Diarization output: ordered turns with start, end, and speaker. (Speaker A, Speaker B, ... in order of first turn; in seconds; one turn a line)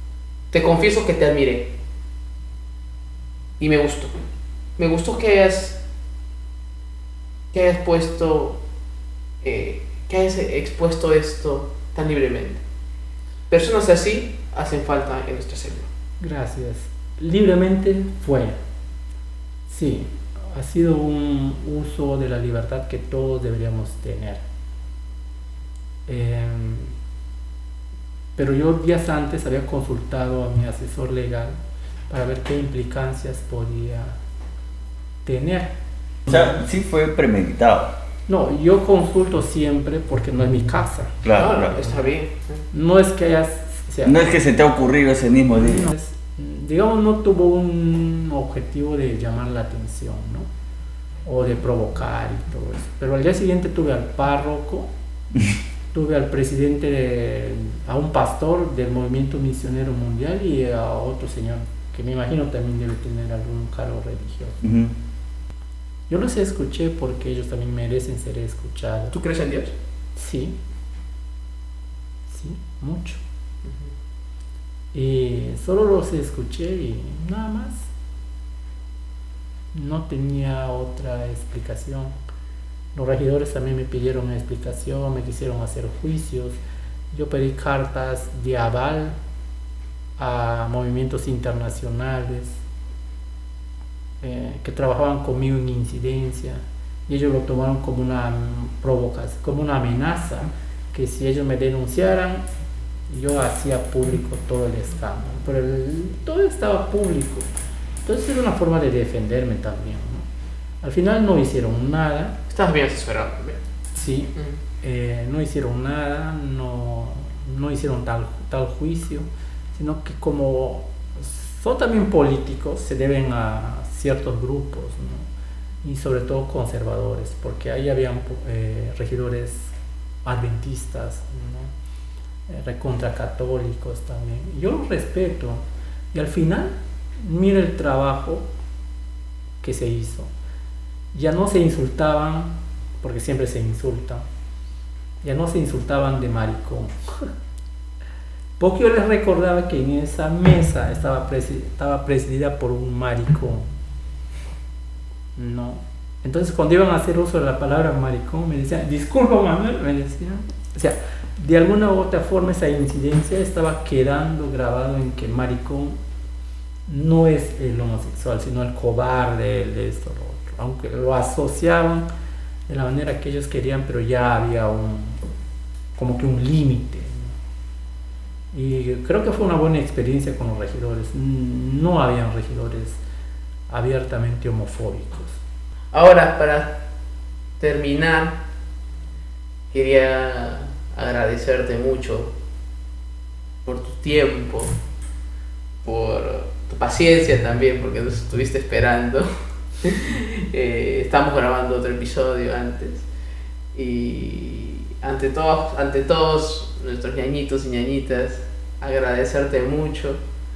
Speaker A: 0.5-1.7
Speaker A: 3.6-4.2
Speaker A: 4.8-5.8
Speaker A: 7.5-8.6
Speaker A: 9.4-12.6
Speaker A: 13.5-15.9
Speaker B: 16.2-18.6
Speaker B: 19.7-24.4
Speaker B: 26.1-26.9
Speaker B: 28.4-31.6
Speaker B: 32.1-34.2
Speaker B: 35.2-35.7
Speaker C: 36.3-37.9
Speaker B: 36.3-36.5
Speaker B: 38.3-41.2
Speaker C: 41.2-42.0
Speaker A: 41.3-42.7
Speaker B: 41.8-42.1
Speaker B: 42.7-44.2
Speaker C: 44.0-45.9
Speaker B: 45.6-50.5
Speaker B: 51.3-54.9
Speaker B: 55.9-64.6
Speaker C: 64.6-65.0
Speaker B: 66.1-69.2
Speaker A: 69.1-69.8
Speaker B: 70.2-70.6
Speaker B: 72.3-73.2
Speaker B: 74.9-77.9
Speaker B: 79.7-82.2
Speaker B: 82.9-86.6
Speaker B: 87.1-89.2
Speaker B: 90.2-92.6
Speaker B: 94.2-102.5
Speaker B: 103.1-107.5
Speaker B: 108.0-110.3
Speaker B: 110.8-112.4
Speaker A: 112.5-113.6
Speaker B: 114.0-125.3
Speaker B: 125.8-129.7
Speaker B: 130.2-131.7
Speaker B: 132.5-138.5
Speaker B: 139.6-140.3
Speaker B: 141.1-144.2
Speaker B: 145.2-147.3
Speaker B: 148.6-153.7
Speaker B: 155.4-166.0
Speaker B: 166.9-172.1
Speaker B: 172.7-175.2
Speaker B: 176.0-177.4
Speaker B: 178.5-183.0
Speaker B: 183.7-185.4
Speaker A: 185.9-186.8
Speaker A: 187.6-188.4
Speaker A: 189.7-192.3
Speaker A: 193.7-194.8
Speaker A: 195.8-203.1
Speaker A: 203.7-210.2